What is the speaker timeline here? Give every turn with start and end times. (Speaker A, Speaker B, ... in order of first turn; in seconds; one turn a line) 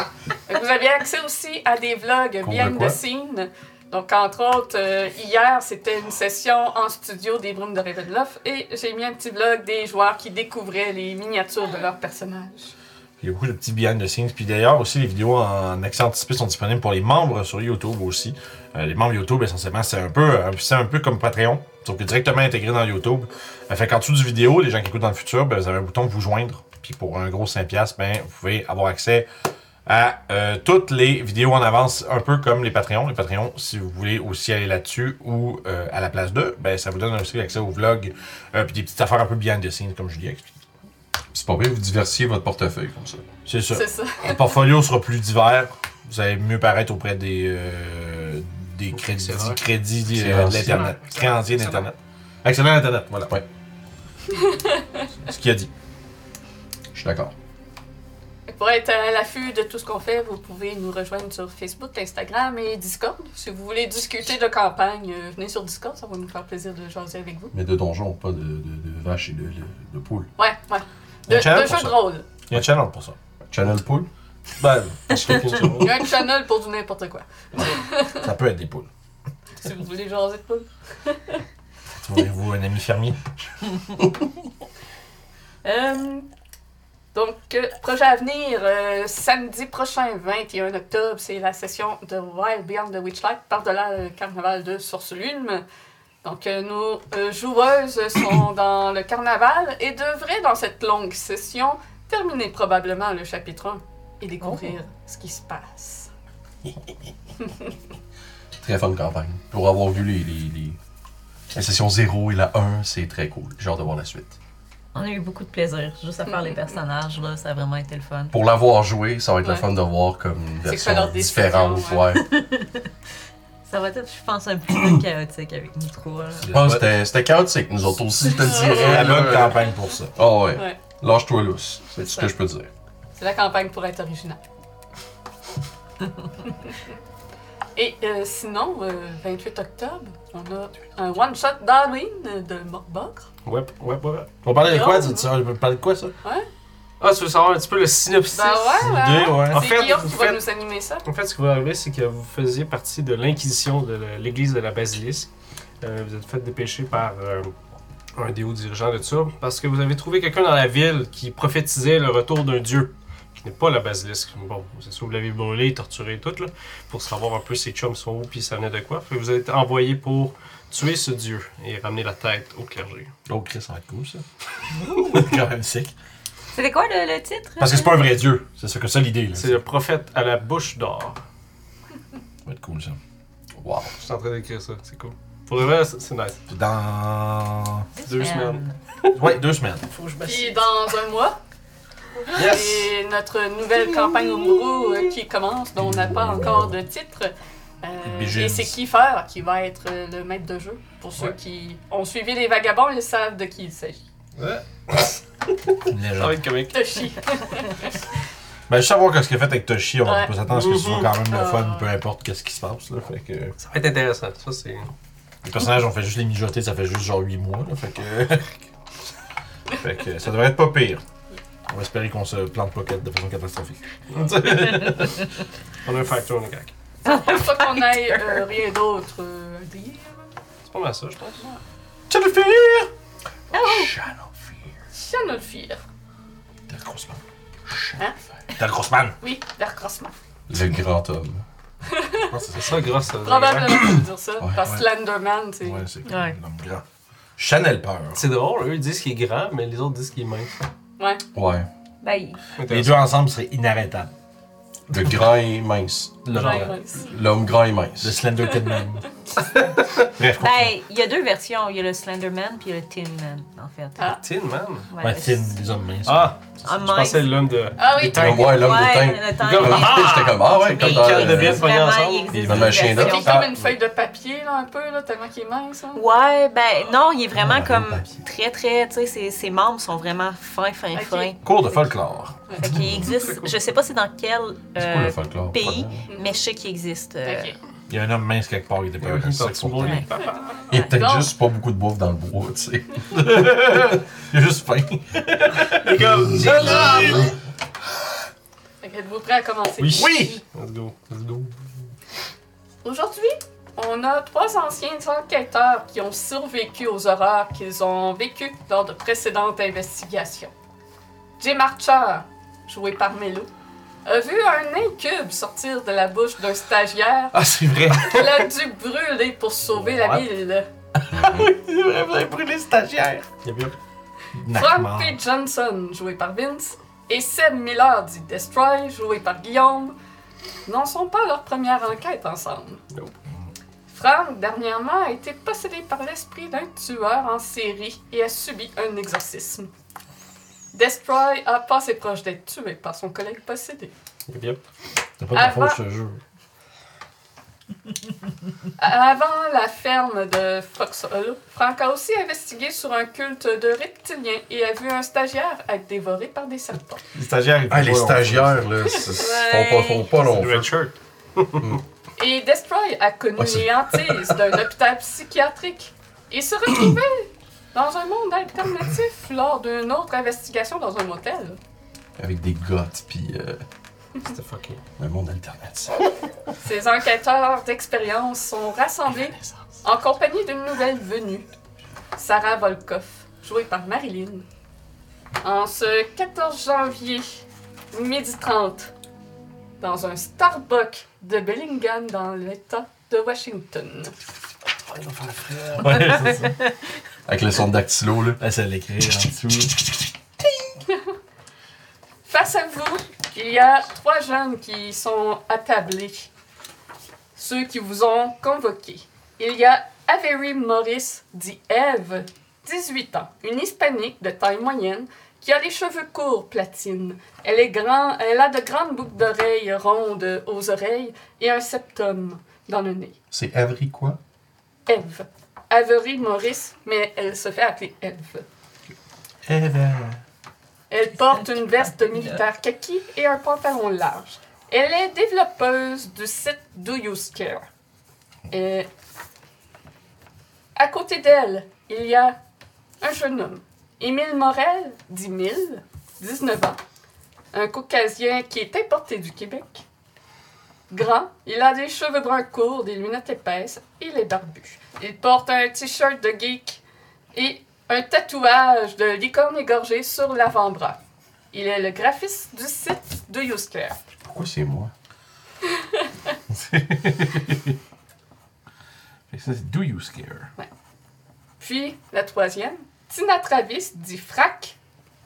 Speaker A: 0.5-12.7
Speaker B: 2.4-3.0
Speaker C: 13.2-29.3
Speaker C: 29.9-40.5
Speaker B: 41.3-43.3
Speaker C: 43.5-53.3
Speaker A: 43.7-44.6
Speaker D: 48.9-49.6
Speaker B: 50.1-50.9
Speaker D: 50.2-51.9
Speaker A: 54.3-55.0
Speaker C: 55.1-55.7
Speaker B: 56.9-57.3
Speaker A: 58.5-67.5
Speaker B: 67.5-70.3
Speaker A: 70.4-72.3
Speaker C: 71.3-73.2
Speaker B: 73.5-74.1
Speaker C: 74.6-76.1
Speaker D: 75.3-75.7
Speaker A: 75.8-78.2
Speaker C: 78.1-78.9
Speaker A: 79.6-81.4
Speaker C: 82.0-83.2
Speaker A: 85.6-86.3
Speaker A: 87.1-95.6
Speaker A: 96.2-106.1
Speaker E: 104.4-104.7
Speaker B: 108.6-110.8
Speaker B: 111.5-114.4
Speaker E: 114.9-118.3
Speaker B: 118.3-122.3
Speaker A: 120.7-122.1
Speaker E: 122.2-122.8
Speaker E: 123.7-126.5
Speaker C: 126.4-126.9
Speaker B: 126.5-132.7
Speaker A: 128.2-129.5
Speaker C: 128.5-130.2
Speaker A: 131.9-132.3
Speaker A: 133.2-134.4
Speaker A: 137.8-143.3
Speaker D: 143.4-144.4
Speaker C: 144.4-146.2
Speaker A: 144.6-145.3
Speaker A: 146.2-146.5
Speaker D: 147.0-148.9
Speaker A: 148.3-151.1
Speaker C: 148.8-149.9
Speaker D: 149.5-150.5
Speaker D: 151.0-155.3
Speaker D: 155.8-157.5
Speaker D: 158.2-173.1
Speaker C: 173.3-174.2
Speaker C: 174.8-175.9
Speaker E: 176.5-178.0
Speaker C: 177.6-179.6
Speaker D: 179.4-181.2
Speaker C: 182.4-183.0
Speaker B: 183.6-183.9
Speaker D: 184.0-186.4
Speaker C: 186.5-187.9
Speaker E: 188.0-188.8
Speaker D: 188.0-189.2
Speaker C: 189.1-189.9
Speaker D: 189.9-190.8
Speaker A: 190.2-191.4
Speaker D: 192.3-192.9
Speaker A: 192.3-204.0
Speaker D: 193.8-195.1
Speaker B: 195.8-196.7
Speaker C: 198.0-198.8
Speaker D: 204.4-205.2
Speaker C: 205.9-206.4
Speaker D: 206.2-206.8
Speaker A: 206.7-208.0
Speaker C: 208.7-213.6
Speaker A: 210.0-210.3
Speaker D: 210.5-211.1
Speaker A: 211.3-211.9
Speaker D: 213.6-214.9
Speaker C: 215.4-218.6
Speaker C: 219.7-221.0
Speaker C: 221.7-223.8
Speaker D: 224.1-225.2
Speaker C: 224.3-225.3
Speaker D: 225.8-226.7
Speaker A: 227.0-230.3
Speaker E: 227.1-228.4
Speaker D: 230.7-231.4
Speaker C: 232.1-232.9
Speaker A: 233.5-233.9
Speaker E: 233.5-233.8
Speaker C: 233.6-234.7
Speaker A: 234.9-235.8
Speaker C: 236.7-238.0
Speaker C: 238.5-239.2
Speaker A: 239.2-240.2
Speaker B: 240.5-241.4
Speaker A: 241.9-242.3
Speaker C: 242.3-242.8
Speaker D: 242.5-244.0
Speaker A: 243.2-245.8
Speaker C: 244.6-244.9
Speaker C: 245.6-246.8
Speaker E: 246.1-246.4
Speaker C: 247.4-248.2
Speaker D: 248.2-250.5
Speaker B: 251.3-251.7
Speaker E: 252.0-252.4
Speaker D: 252.6-253.0
Speaker C: 252.7-254.1
Speaker B: 254.9-258.2
Speaker D: 256.3-256.8
Speaker C: 256.3-256.7
Speaker A: 256.4-257.1
Speaker C: 258.0-259.1
Speaker C: 260.1-260.7
Speaker E: 260.4-264.2
Speaker D: 264.2-264.9
Speaker E: 264.9-265.6
Speaker C: 265.0-266.5
Speaker D: 266.1-268.8
Speaker E: 266.6-267.3
Speaker A: 267.8-268.4
Speaker B: 268.0-271.7
Speaker E: 268.3-273.4
Speaker D: 269.4-273.4
Speaker B: 272.4-273.4
Speaker A: 272.9-276.1
Speaker E: 275.9-281.4
Speaker B: 277.4-278.2
Speaker A: 280.9-281.8
Speaker C: 281.4-283.1
Speaker A: 282.5-282.7
Speaker E: 282.6-287.5
Speaker D: 283.1-283.6
Speaker B: 284.8-286.1
Speaker A: 286.1-286.4
Speaker A: 287.2-287.6
Speaker C: 287.9-290.0
Speaker D: 289.0-290.4
Speaker B: 290.7-293.1
Speaker A: 290.8-291.3
Speaker C: 293.1-297.3
Speaker D: 295.9-297.3
Speaker B: 296.5-297.0
Speaker A: 296.6-297.2
Speaker A: 298.8-300.1
Speaker D: 299.8-301.6
Speaker C: 299.9-300.4
Speaker A: 302.8-310.5
Speaker A: 311.4-313.5
Speaker A: 314.1-317.4
Speaker D: 317.3-318.3
Speaker C: 317.4-318.2
Speaker A: 317.9-320.7
Speaker D: 319.7-320.3
Speaker B: 321.1-321.5
Speaker C: 321.2-323.2
Speaker D: 321.3-321.7
Speaker D: 323.4-323.8
Speaker C: 324.4-325.2
Speaker A: 324.5-330.0
Speaker A: 330.7-332.8
Speaker A: 333.9-339.7
Speaker A: 340.7-343.9
Speaker D: 344.3-344.6
Speaker C: 345.2-346.2
Speaker A: 345.3-345.8
Speaker A: 348.8-357.1
Speaker C: 357.1-358.7
Speaker B: 357.7-360.7
Speaker E: 359.1-360.1
Speaker D: 360.2-361.7
Speaker A: 362.2-371.6
Speaker B: 363.4-364.4
Speaker B: 372.2-373.6
Speaker D: 374.2-374.8
Speaker B: 375.0-376.1
Speaker A: 376.6-381.5
Speaker A: 382.1-384.4
Speaker A: 385.4-388.9
Speaker A: 389.8-394.2
Speaker D: 395.0-395.9
Speaker C: 395.7-396.6
Speaker B: 397.3-398.4
Speaker C: 398.4-400.1
Speaker A: 402.2-406.3
Speaker A: 407.4-423.2
Speaker B: 423.3-424.2
Speaker A: 424.9-428.5
Speaker C: 429.5-430.2
Speaker A: 430.9-437.7
Speaker A: 438.5-438.9
Speaker A: 440.8-442.4
Speaker A: 443.0-446.8
Speaker A: 447.5-449.9
Speaker A: 450.9-456.8
Speaker A: 457.3-461.0
Speaker A: 461.5-464.0
Speaker B: 464.2-464.9
Speaker A: 465.7-466.3
Speaker C: 466.5-467.7
Speaker C: 469.3-470.5
Speaker A: 471.6-474.8